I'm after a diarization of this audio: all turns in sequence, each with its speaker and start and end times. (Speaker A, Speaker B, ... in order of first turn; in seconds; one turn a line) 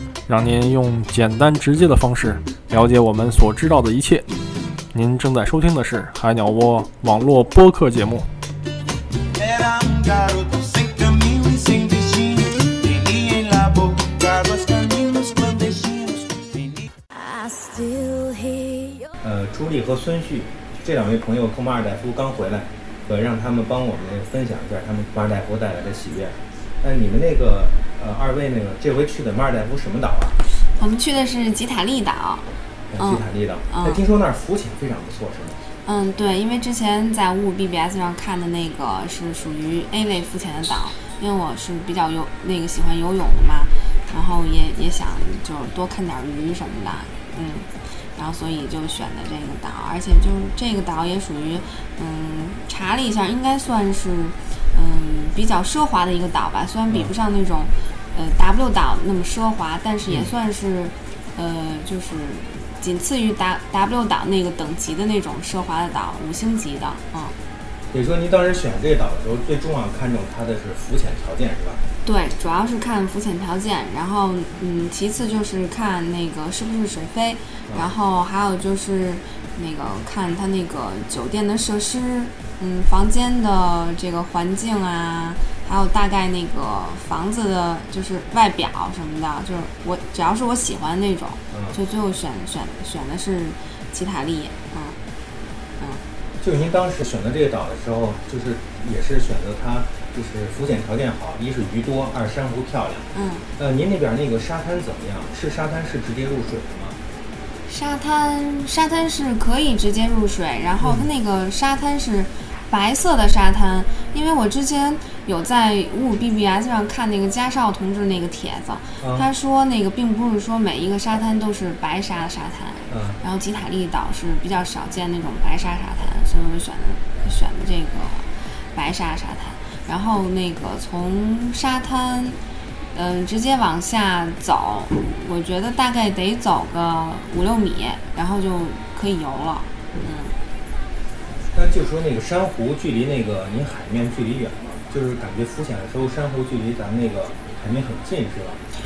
Speaker A: 0.3-4.4
Speaker A: 4.9-8.3
Speaker B: 9.4-16.9
Speaker C: 17.1-19.1
Speaker D: 19.2-30.4
Speaker E: 30.6-32.5
Speaker D: 32.9-35.6
Speaker E: 33.0-34.0
Speaker E: 35.9-67.3
Speaker D: 67.9-71.8
Speaker E: 72.0-95.0
Speaker D: 91.5-91.8
Speaker D: 96.4-107.0
Speaker E: 103.1-103.5
Speaker E: 107.7-132.4
Speaker D: 110.8-111.1
Speaker D: 119.0-119.3
Speaker D: 122.9-123.2
Speaker E: 132.9-140.3
Speaker D: 141.5-148.6